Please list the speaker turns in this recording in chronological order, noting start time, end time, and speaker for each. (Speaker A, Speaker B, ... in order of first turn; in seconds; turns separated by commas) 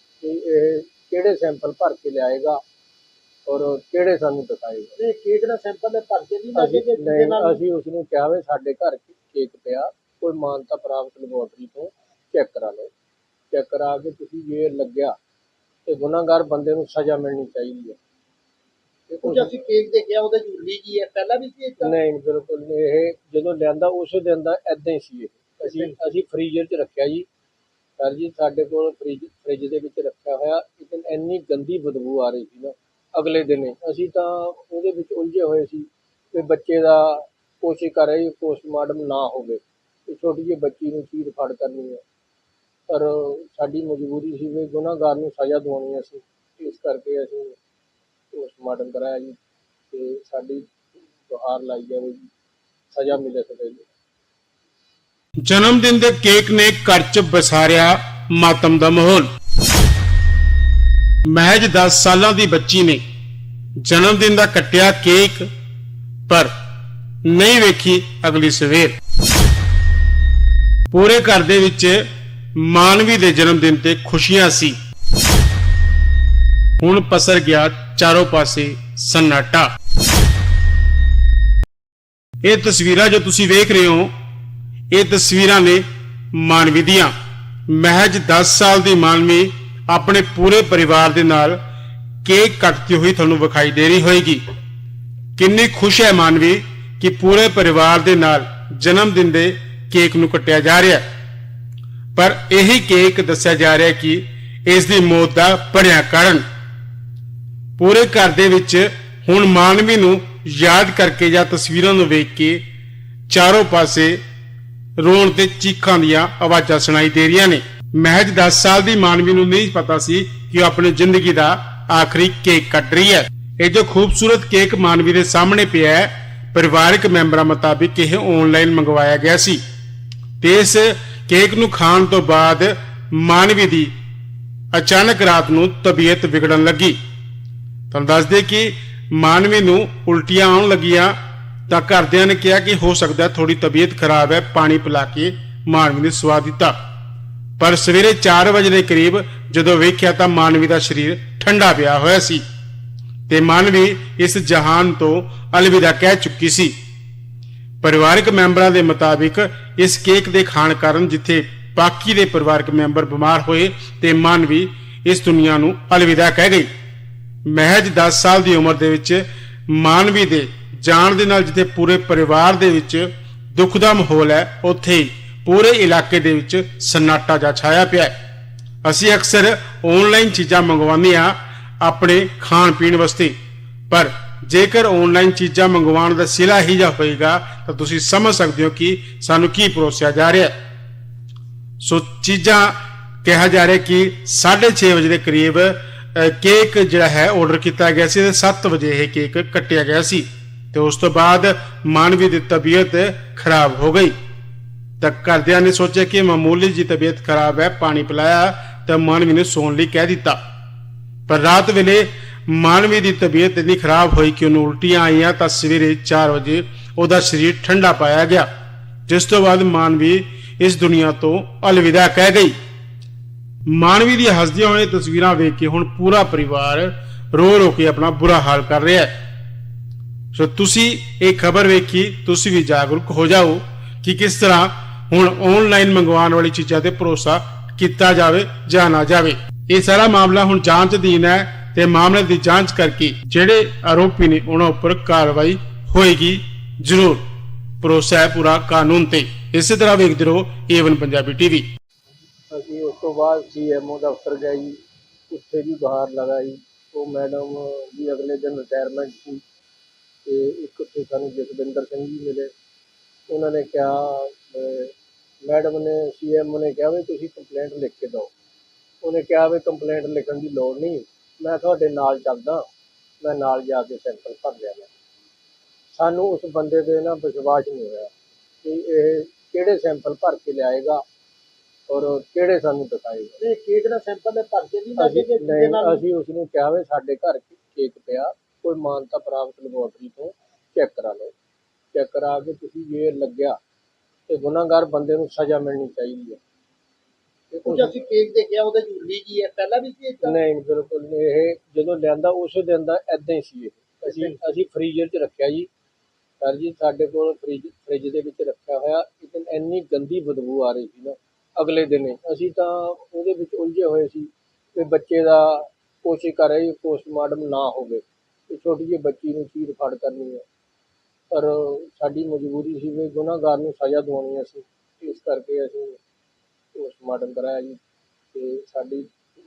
Speaker A: 0.2-2.6, Speaker A: 3.5-5.0, Speaker B: 5.0-7.6, Speaker A: 6.5-12.9, Speaker A: 13.5-15.2, Speaker A: 15.8-18.0, Speaker A: 19.1-19.5, Speaker B: 19.2-21.9, Speaker A: 21.8-27.2, Speaker B: 25.6-25.9, Speaker A: 28.0-42.0, Speaker A: 42.9-47.5, Speaker A: 48.3-49.4, Speaker A: 49.9-50.7, Speaker A: 51.2-52.3, Speaker A: 52.9-53.9, Speaker C: 55.4-59.3, Speaker C: 61.2-63.0, Speaker C: 63.8-65.4, Speaker C: 67.2-69.0, Speaker C: 70.9-72.0, Speaker C: 72.5-74.8, Speaker C: 76.8-79.7, Speaker C: 82.4-84.1, Speaker C: 84.9-87.1, Speaker C: 87.7-91.6, Speaker C: 92.2-94.4, Speaker C: 95.4-101.0, Speaker C: 102.2-106.4, Speaker C: 107.8-112.6, Speaker C: 113.3-114.2, Speaker C: 115.0-129.6, Speaker C: 130.4-133.9, Speaker C: 134.7-137.0, Speaker C: 137.9-141.1, Speaker C: 141.7-146.7, Speaker C: 147.6-152.4, Speaker C: 153.3-156.7, Speaker C: 157.8-166.7, Speaker C: 167.4-178.1, Speaker C: 178.8-183.3, Speaker C: 183.9-190.5, Speaker C: 191.8-204.1, Speaker C: 205.0-210.4, Speaker C: 211.3-218.5, Speaker C: 219.1-222.6, Speaker C: 223.7-229.1, Speaker C: 230.3-247.2, Speaker C: 247.8-251.7, Speaker A: 252.5-259.4, Speaker A: 260.2-262.5, Speaker A: 263.3-264.9, Speaker A: 265.4-268.3, Speaker A: 269.0-272.6, Speaker A: 273.2-274.9, Speaker A: 275.9-278.1, Speaker A: 278.6-281.0, Speaker A: 281.9-283.4, Speaker B: 283.4-286.0, Speaker A: 285.0-291.3, Speaker A: 291.9-293.6, Speaker A: 294.3-296.4, Speaker A: 297.5-297.9, Speaker B: 297.6-300.4, Speaker A: 300.2-305.7, Speaker B: 304.1-304.4, Speaker A: 306.4-320.4, Speaker A: 321.3-326.0, Speaker A: 326.7-327.8, Speaker A: 328.3-329.1